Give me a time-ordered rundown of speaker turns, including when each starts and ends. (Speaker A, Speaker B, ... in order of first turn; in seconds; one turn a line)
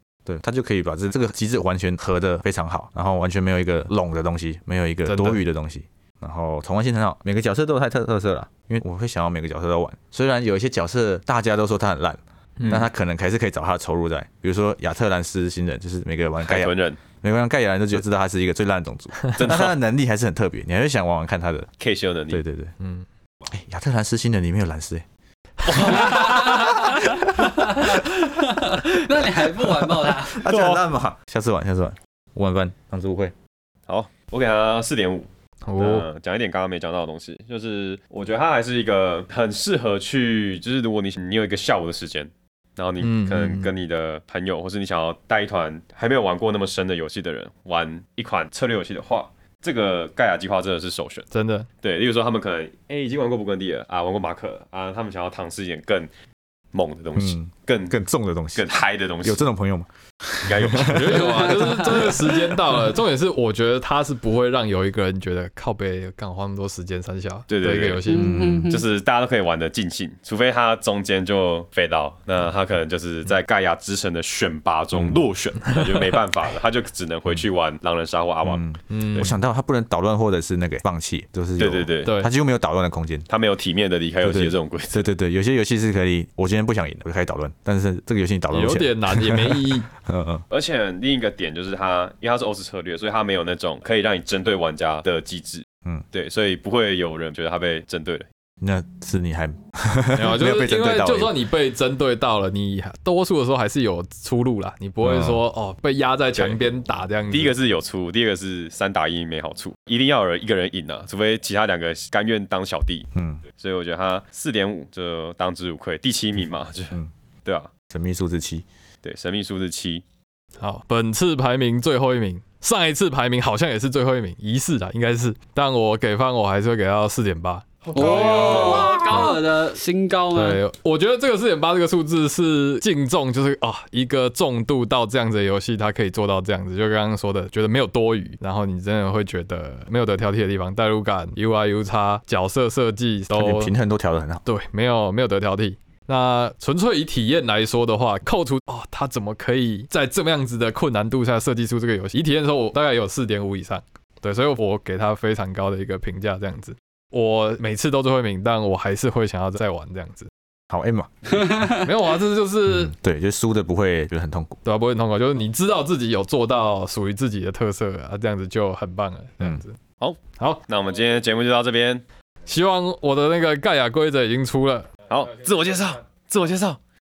Speaker A: 0.3-21.7
Speaker B: 5.1-5.4
Speaker C: 12.6-12.9
Speaker C: 16.4-17.0
Speaker C: 19.4-19.8
Speaker C: 21.8-22.4
Speaker A: 22.3-22.7
Speaker A: 23.5-25.1
Speaker B: 25.7-26.0
Speaker A: 25.7-26.2
Speaker D: 25.9-26.8
Speaker D: 27.4-30.4
Speaker A: 30.0-33.3
Speaker C: 30.5-30.8
Speaker C: 33.9-51.3
Speaker B: 35.7-36.1
Speaker B: 43.0-43.7
Speaker B: 51.3-51.7
Speaker C: 51.8-56.1
Speaker C: 56.7-58.0
Speaker A: 57.2-61.3
Speaker C: 58.5-59.5
Speaker C: 60.5-62.1
Speaker B: 60.8-68.5
Speaker D: 61.3-62.1
Speaker C: 67.5-79.3
Speaker D: 68.1-68.9
Speaker A: 68.1-68.8
Speaker A: 74.9-75.2
Speaker B: 75.6-76.2
Speaker A: 78.4-83.3
Speaker B: 78.9-79.3
Speaker C: 81.6-82.2
Speaker C: 83.3-85.1
Speaker A: 84.2-90.4
Speaker B: 88.5-89.9
Speaker C: 90.5-98.3
Speaker A: 98.6-101.3
Speaker B: 100.2-107.5
Speaker A: 105.0-105.4
Speaker C: 107.3-117.7
Speaker A: 113.1-113.4
Speaker A: 117.9-118.7
Speaker C: 119.0-120.0
Speaker B: 120.6-129.5
Speaker D: 127.9-130.6
Speaker C: 128.0-128.9
Speaker B: 130.3-143.7
Speaker A: 143.3-144.4
Speaker B: 144.5-160.3
Speaker A: 160.7-161.7
Speaker B: 161.7-162.9
Speaker A: 162.7-164.6
Speaker B: 164.7-169.8
Speaker C: 170.0-172.0
Speaker B: 170.3-170.6
Speaker B: 172.5-174.9
Speaker C: 175.1-176.8